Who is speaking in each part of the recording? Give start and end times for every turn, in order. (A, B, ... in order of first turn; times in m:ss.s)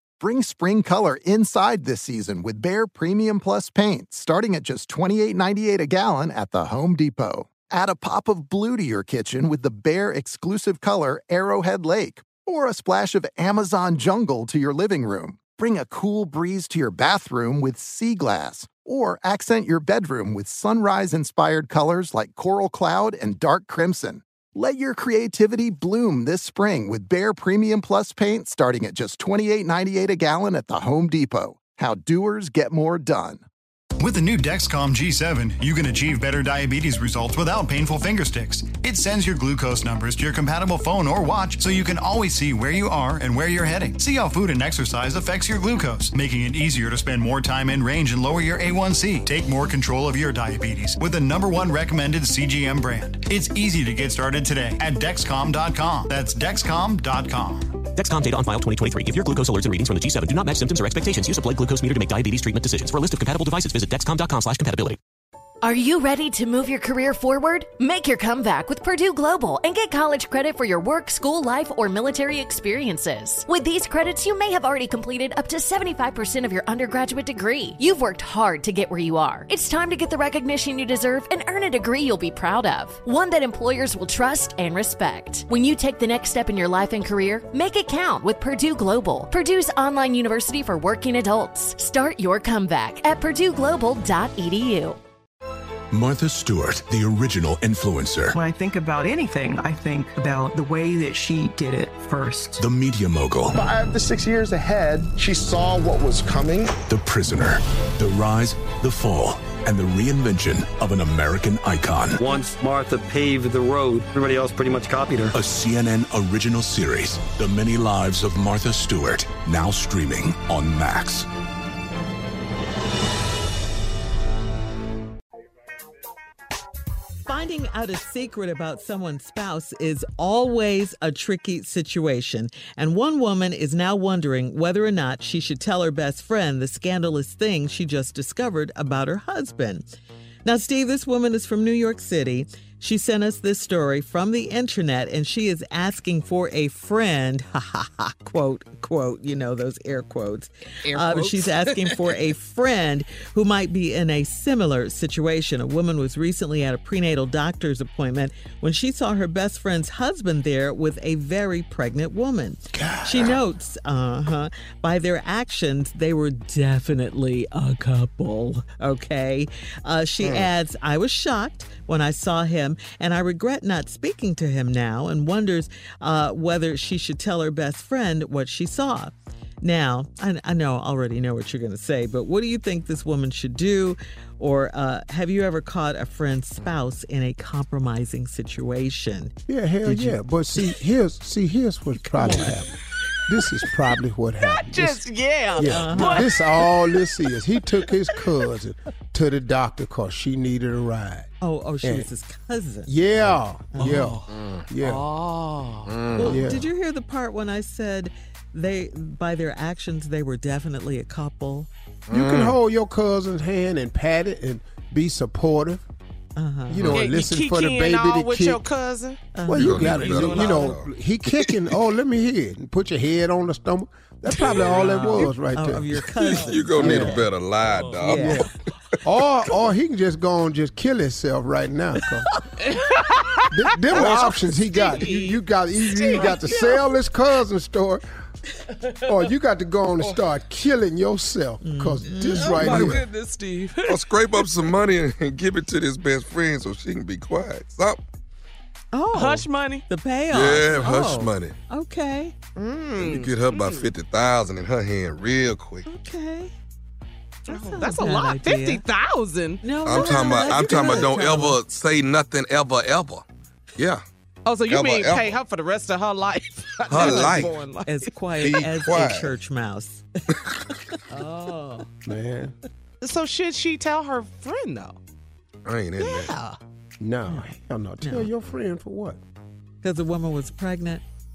0:00.2-0:33.4 A
0:34.0-0:57.9 B
0:58.0-1:04.8 C
1:05.6-1:35.0 D
1:35.9-1:38.4 E
1:38.4-1:42.6 F
1:42.6-1:43.6 E
1:43.6-1:46.7 G
1:46.9-1:52.2 E
1:52.2-1:55.3 H
1:55.3-2:01.3 E
2:07.2-2:19.8 I
2:20.4-3:10.2 I
2:30.8-2:32.0 J
2:42.7-2:43.4 K
2:50.2-2:50.5 L
3:09.5-3:12.8 K
3:12.2-3:12.6 I
3:13.3-3:15.0 K
3:14.4-3:16.7 J
3:15.6-3:21.3 K
3:15.6-3:16.3 I
3:21.4-3:23.0 I
3:21.8-3:22.1 K
3:22.9-3:25.1 K
3:23.7-3:24.2 I
3:23.8-3:24.2 J
3:24.3-3:24.8 L
3:24.8-3:25.9 J
3:25.8-3:26.3 L
3:26.2-3:31.7 I
3:26.2-3:26.7 K
3:32.1-3:32.6 L
3:32.1-3:35.8 K
3:36.4-3:37.0 I
3:36.7-3:38.6 K
3:36.8-3:37.1 L
3:37.0-3:39.3 J
3:39.3-3:40.2 I
3:39.4-3:45.9 K
3:39.5-3:41.7 L
3:39.9-3:40.6 J
3:44.3-3:45.2 J
3:44.4-3:44.8 L
3:44.6-3:47.3 I
3:46.0-3:48.5 L
3:46.8-3:47.2 K
3:47.6-3:48.0 J
3:48.0-3:48.5 I
3:48.0-3:48.5 K
3:49.0-3:52.3 K
3:52.6-3:56.8 J
3:53.5-3:58.1 K
3:54.0-3:54.8 L
3:59.0-4:03.1 K
4:01.6-4:03.0 I
4:02.4-4:04.5 J
4:03.8-4:08.0 L
4:08.9-4:12.4 I
4:09.1-4:09.9 J
4:10.3-4:11.6 L
4:12.6-4:13.9 J
4:12.9-4:15.8 L
4:15.8-4:16.5 I
4:17.5-4:21.2 J
4:17.5-4:18.8 I
4:19.6-4:21.6 I
4:19.7-4:23.3 L
4:23.8-4:24.0 L
4:24.5-4:28.1 J
4:24.6-4:25.5 L
4:26.9-4:27.6 L
4:27.0-4:30.0 I
4:28.4-4:29.4 L
4:31.1-4:31.9 I
4:32.1-4:32.6 K
4:33.0-4:35.0 J
4:35.6-4:36.4 L
4:36.0-4:36.6 J
4:37.0-4:39.2 K
4:37.3-4:38.3 I
4:39.8-4:41.0 I